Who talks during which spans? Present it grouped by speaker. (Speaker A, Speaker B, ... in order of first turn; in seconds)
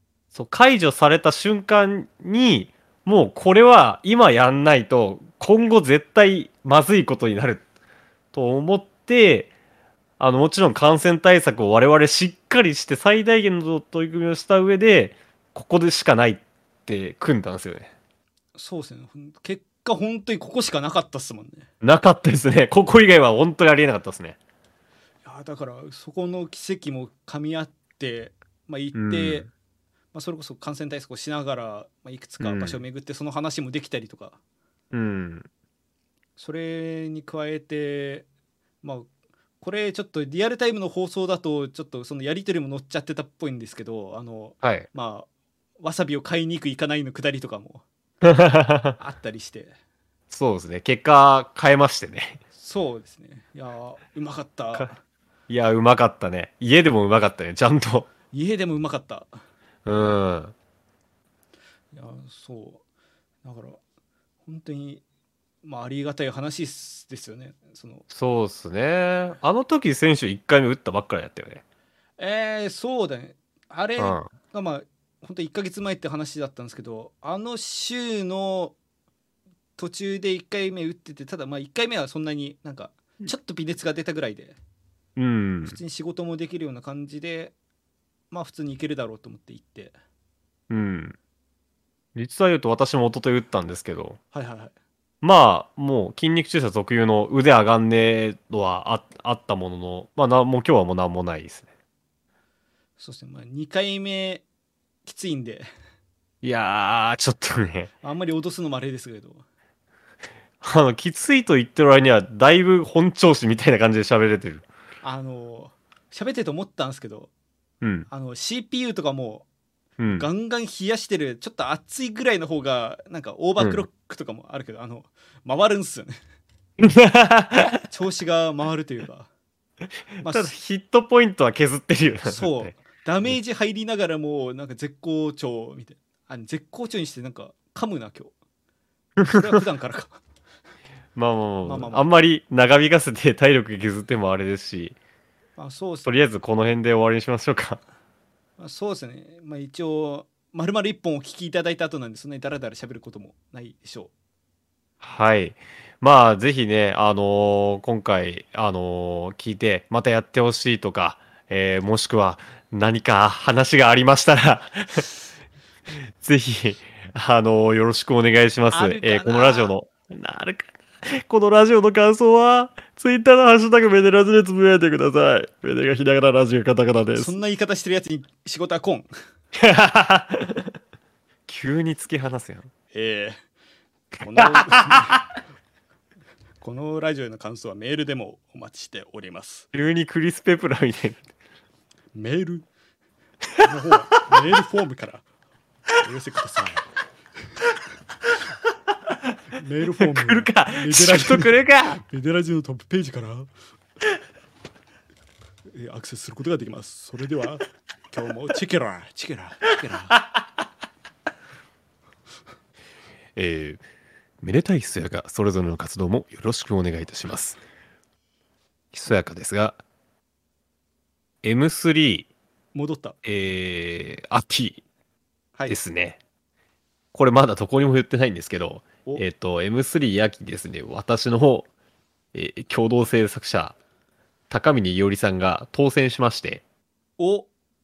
Speaker A: 0.3-7.6, 8.3-9.5, 10.2-17.9, 21.8-24.4, 28.9-29.5, 32.4-32.8, 34.9-35.5, 44.6-44.9, 48.2-49.0, 50.3-52.4, 55.5-58.1, 59.9-60.5, 68.1-71.6, 74.0-74.3, 85.2-85.8, 90.7-91.2, 92.1-94.2, 95.2-101.7, 106.4-107.9, 110.6-114.6, 117.8-118.1, 120.0-120.3, 123.6-123.9, 126.8-127.8, 130.2-132.7, 141.1-144.9, 146.1-147.8, 155.0-165.0, 166.2-177.3, 179.5-180.7, 181.5-182.7, 184.4-185.2, 189.7-191.2, 200.0-202.0, 213.4-213.8, 214.4-217.6, 218.9-219.8, 221.4-222.3, 223.2-224.8, 225.7-226.2, 227.1-231.7, 232.3-233.7, 234.5-236.6
Speaker B: 18.6-21.7, 25.2-29.5, 30.1-34.4, 36.4-38.2, 38.8-39.1, 39.6-45.3, 45.8-47.8, 49.0-49.7, 52.5-55.0, 58.3-59.3, 61.9-62.8, 63.4-63.8, 64.4-65.0, 65.6-68.0, 72.2-78.8, 79.8-84.6, 85.6-87.5, 88.3-90.0, 94.3-94.7, 103.0-104.4, 105.1-105.7, 108.0-109.4, 115.0-117.3, 118.1-119.5, 120.2-126.2, 127.9-129.3, 130.2-130.5, 132.2-138.3, 139.2-140.2, 141.6-142.0, 145.6-146.1, 148.6-154.1, 168.7-169.7, 177.1-179.1, 182.9-183.4, 184.2-185.2, 186.6-189.7, 192.1-192.7, 193.6-195.2, 195.9-196.8, 199.5-201.5, 202.1-203.5, 205.7-210.2, 222.7-223.2, 237.2-237.5